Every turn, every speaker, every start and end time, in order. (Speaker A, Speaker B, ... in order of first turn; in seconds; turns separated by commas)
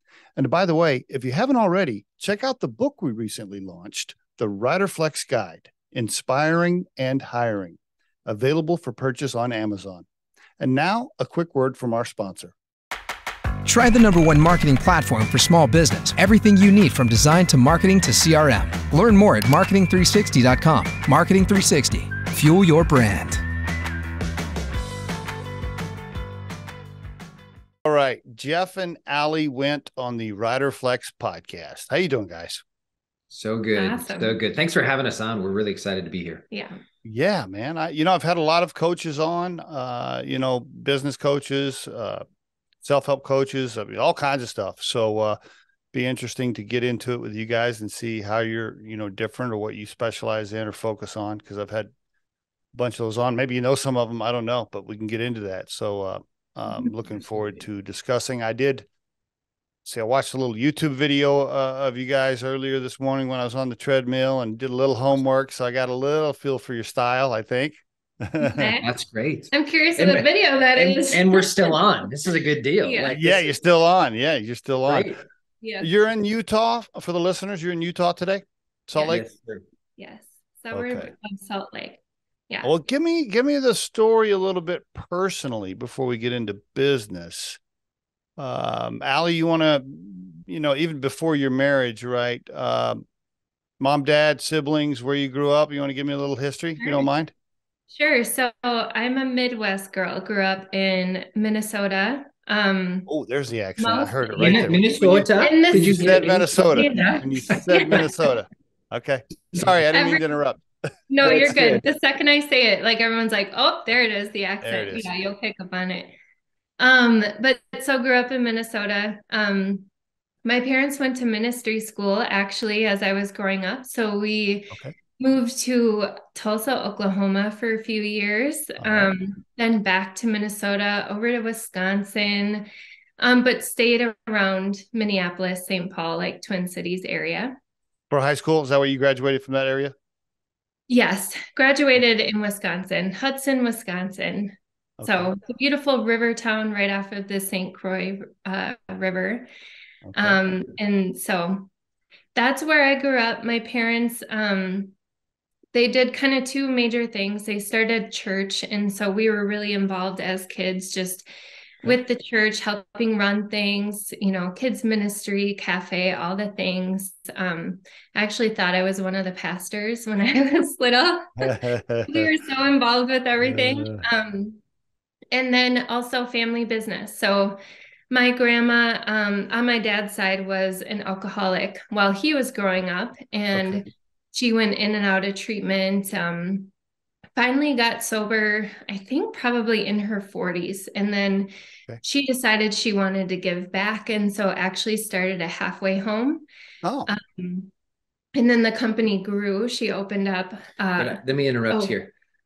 Speaker A: 0.4-10.1, Speaker A: 10.6-12.5, Speaker B: 13.7-23.4, Speaker A: 27.9-32.6, Speaker C: 33.3-36.4, Speaker D: 33.8-34.4, Speaker D: 36.5-36.8, Speaker A: 37.0-42.2, Speaker A: 42.8-45.4, Speaker A: 45.9-51.9, Speaker A: 52.7-58.9, Speaker A: 59.9-68.7, Speaker D: 68.4-68.9, Speaker C: 68.8-73.4, Speaker D: 69.5-71.8, Speaker D: 72.8-73.2, Speaker A: 73.1-75.2, Speaker C: 74.9-75.2, Speaker D: 75.6-75.9, Speaker A: 75.8-79.2, Speaker C: 79.0-79.7, Speaker D: 80.0-82.0, Speaker A: 80.7-81.1, Speaker A: 82.6-87.6, Speaker A: 88.4-93.0, Speaker A: 93.8-97.3, Speaker D: 96.8-97.1, Speaker D: 97.9-103.1, Speaker A: 103.1-111.8, Speaker D: 103.8-108.1, Speaker C: 104.4-108.0, Speaker D: 109.9-110.2, Speaker D: 111.1-116.1, Speaker C: 111.3-111.7, Speaker A: 114.6-115.1, Speaker D: 116.8-119.9, Speaker D: 120.4-137.6, Speaker A: 128.8-129.1, Speaker A: 138.1-139.9, Speaker D: 140.9-149.5, Speaker A: 145.0-145.3, Speaker A: 150.1-150.4, Speaker D: 150.2-151.7, Speaker D: 152.3-154.9, Speaker D: 155.7-161.3, Speaker D: 161.8-174.6, Speaker A: 171.4-172.3, Speaker A: 173.4-174.1, Speaker D: 175.3-177.6, Speaker D: 178.1-186.7, Speaker A: 183.6-183.8, Speaker D: 187.4-191.5, Speaker D: 192.0-196.4, Speaker A: 196.8-197.1, Speaker D: 197.1-197.7, Speaker D: 198.3-201.9, Speaker C: 201.0-202.1